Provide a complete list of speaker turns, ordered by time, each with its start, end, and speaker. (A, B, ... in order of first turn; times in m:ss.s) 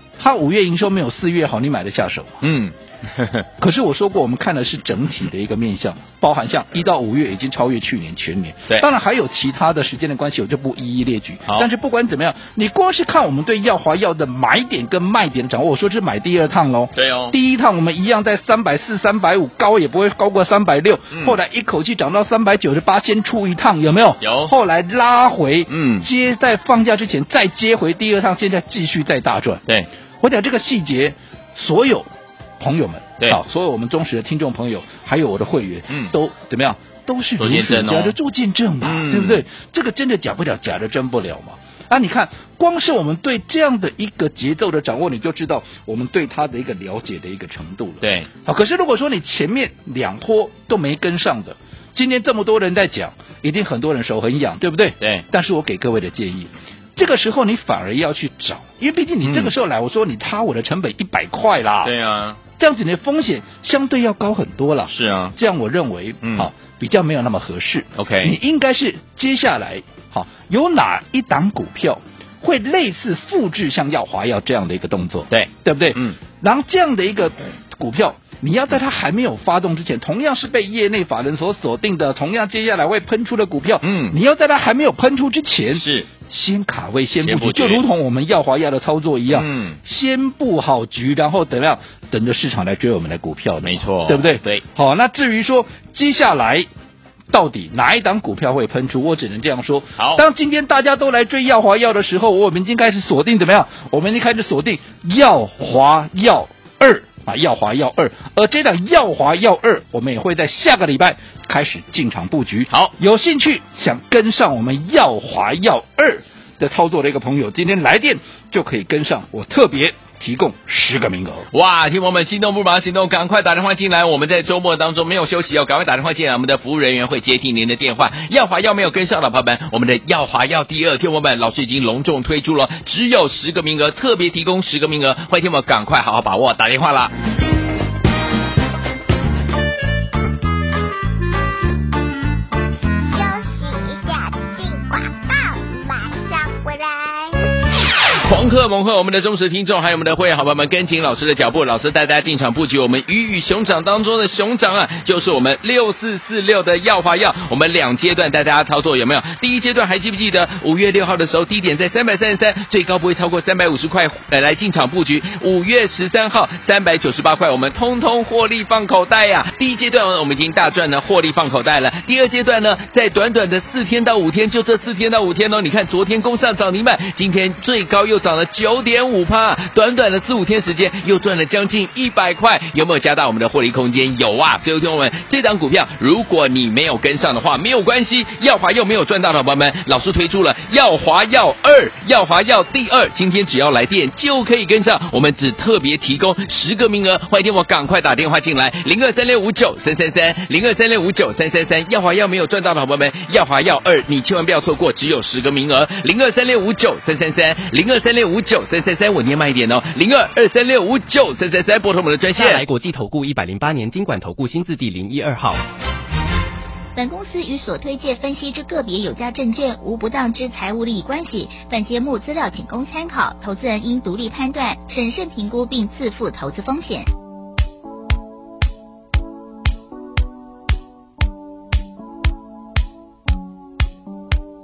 0:00.2-0:02.4 A
0:02.4-0:03.5 B
0:03.6-0:29.6 A
0:16.9-0:17.4 B
0:24.2-0:24.5 B
0:25.7-0:26.1 B
0:30.2-0:32.1 A
0:32.6-1:01.9 A
0:37.4-0:38.2 B
0:38.8-0:39.4 B
0:48.0-0:48.3 B
0:55.0-0:55.3 B
0:59.2-0:59.5 B
1:01.8-1:02.4 B
1:02.6-1:36.7 A
1:04.9-1:05.4 B
1:06.2-1:06.5 B
1:08.0-1:08.4 B
1:15.3-1:16.2 B
1:23.8-1:24.2 B
1:25.7-1:26.1 B
1:27.2-1:27.8 B
1:29.3-1:29.8 B
1:33.6-1:34.6 B
1:37.3-2:01.5 A
1:40.0-1:40.2 B
2:01.5-2:17.1 B
2:23.1-2:27.5 C
2:28.2-3:32.6 B
3:32.3-3:35.6 D
3:37.0-3:47.1 E